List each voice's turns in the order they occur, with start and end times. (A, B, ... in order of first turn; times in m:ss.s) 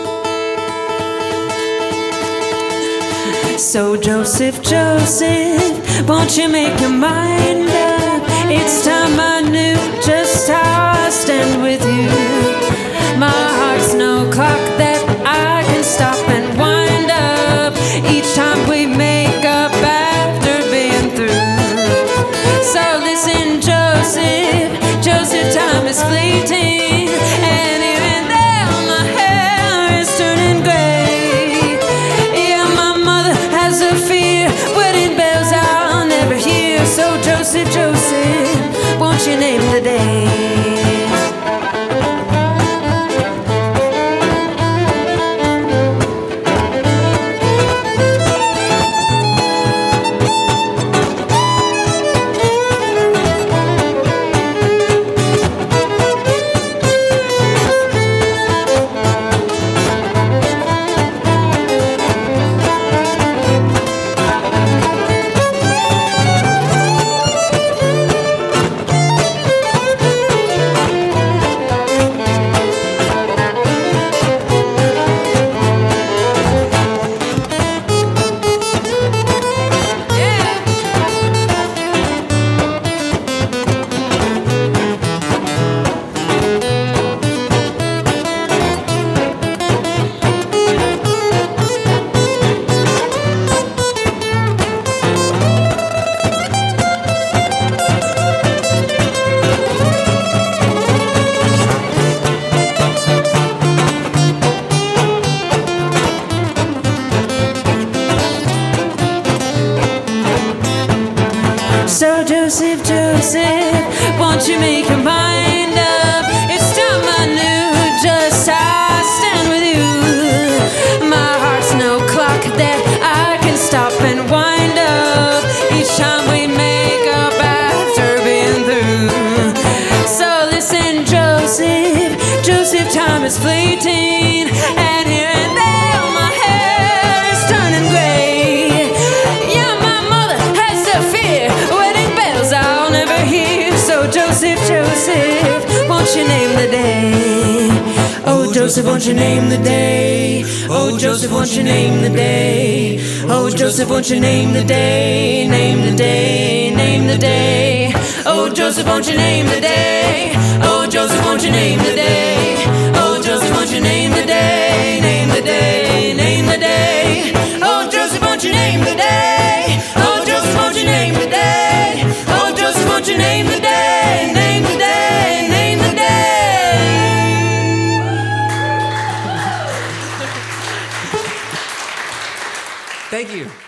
0:03.2-0:41.2 A
1:20.2-1:20.6 A
1:51.8-2:58.1 A
3:03.1-3:03.5 A